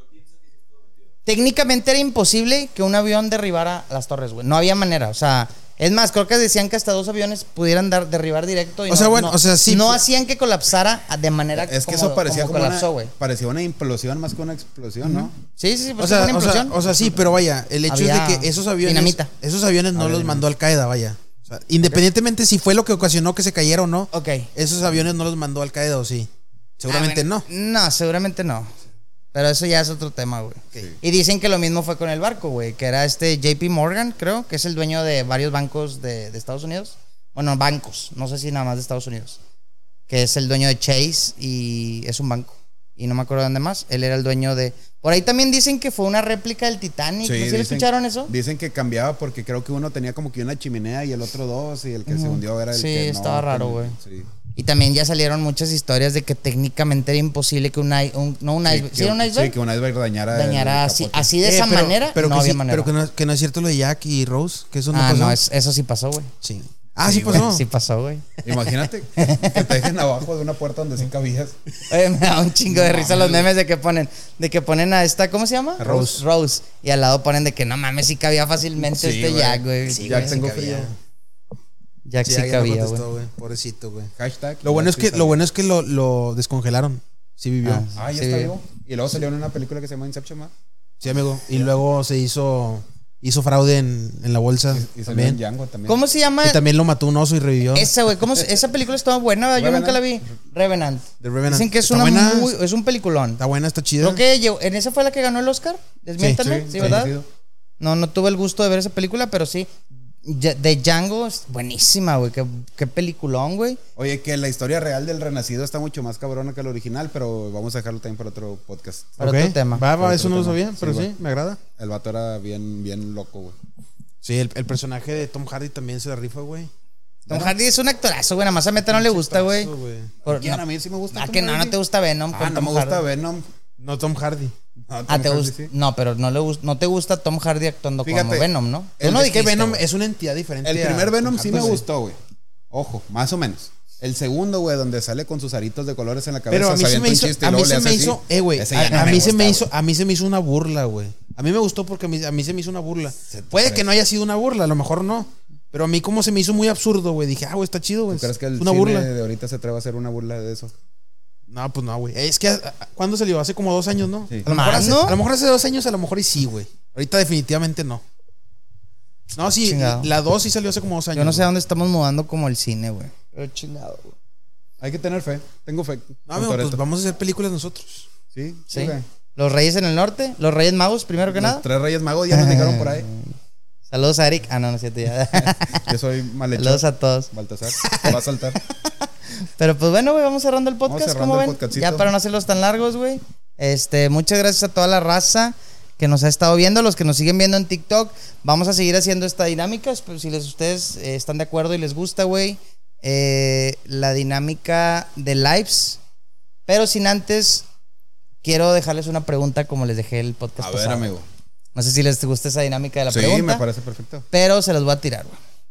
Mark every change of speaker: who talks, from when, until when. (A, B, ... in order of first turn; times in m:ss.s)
0:01.3-0:13.1 A
0:08.9-0:10.0 B
0:11.5-0:15.3 C
0:15.4-0:16.8 A
0:16.0-0:27.5 B
0:17.9-0:19.3 A
0:20.0-0:20.4 C
0:24.1-0:24.5 A
0:26.9-0:28.7 A
0:29.3-0:39.4 A
0:40.1-0:48.3 A
0:47.2-0:54.3 C
0:52.1-0:54.0 A
0:54.6-0:59.6 A
0:58.7-1:01.3 C
1:00.3-1:02.9 A
1:01.4-1:05.4 B
1:04.9-1:06.3 A
1:06.4-1:07.6 B
1:07.0-1:08.3 A
1:08.4-1:11.6 C
1:09.2-1:09.8 A
1:11.9-1:20.5 A
1:12.7-1:13.5 B
1:15.8-1:16.2 B
1:18.9-1:20.9 C
1:19.8-1:21.0 B
1:22.0-1:23.0 A
1:22.2-1:24.1 B
1:24.2-1:25.4 C
1:24.6-1:27.8 B
1:27.6-1:28.5 A
1:28.0-1:30.5 C
1:31.0-1:35.4 B
1:34.7-1:36.0 C
1:35.9-1:36.6 A
1:36.4-1:37.9 B
1:37.7-1:43.4 A
1:39.6-1:40.0 C
1:41.2-1:42.5 B
1:43.4-1:44.2 B
1:44.0-1:47.1 A
1:46.2-1:47.0 B
1:46.5-1:47.3 C
1:47.8-1:49.7 A
1:50.2-1:53.8 A
1:54.0-1:59.2 C
1:59.2-1:59.9 A
1:59.2-2:01.6 B
2:00.0-2:01.1 C
2:01.8-2:03.6 C
2:04.2-2:06.7 B
2:07.3-2:09.7 A
2:07.3-2:07.5 B
2:08.9-2:10.1 B
2:10.2-2:10.6 A
2:10.3-2:11.8 C
2:11.1-2:13.0 A
2:12.3-2:13.5 C
2:13.8-2:14.5 B
2:14.9-2:15.7 C
2:15.1-2:19.8 A
2:18.0-2:18.5 C
2:19.0-2:21.8 B
2:20.6-2:22.2 C
2:22.7-2:29.7 C
2:26.5-2:39.1 B
2:28.9-2:29.2 A
2:33.3-2:33.9 C
2:38.1-2:40.7 C
2:41.5-2:48.0 B
2:44.5-2:45.2 A
2:49.4-2:51.5 B
2:49.6-2:50.1 A
2:51.2-2:54.1 A
2:54.8-2:56.8 C
2:56.3-2:58.1 B
2:58.3-2:59.0 C
2:58.7-3:01.6 A
3:01.3-3:03.1 C
3:02.3-3:03.3 A
3:03.9-3:05.9 A
3:05.4-3:08.6 C
3:06.6-3:08.2 A
3:09.1-3:26.0 A
3:10.9-3:12.1 C
3:26.7-3:27.6 A
3:28.4-3:31.1 A
3:30.6-3:31.2 C
3:31.8-3:33.6 A
3:33.1-3:34.2 C
3:34.3-3:35.4 A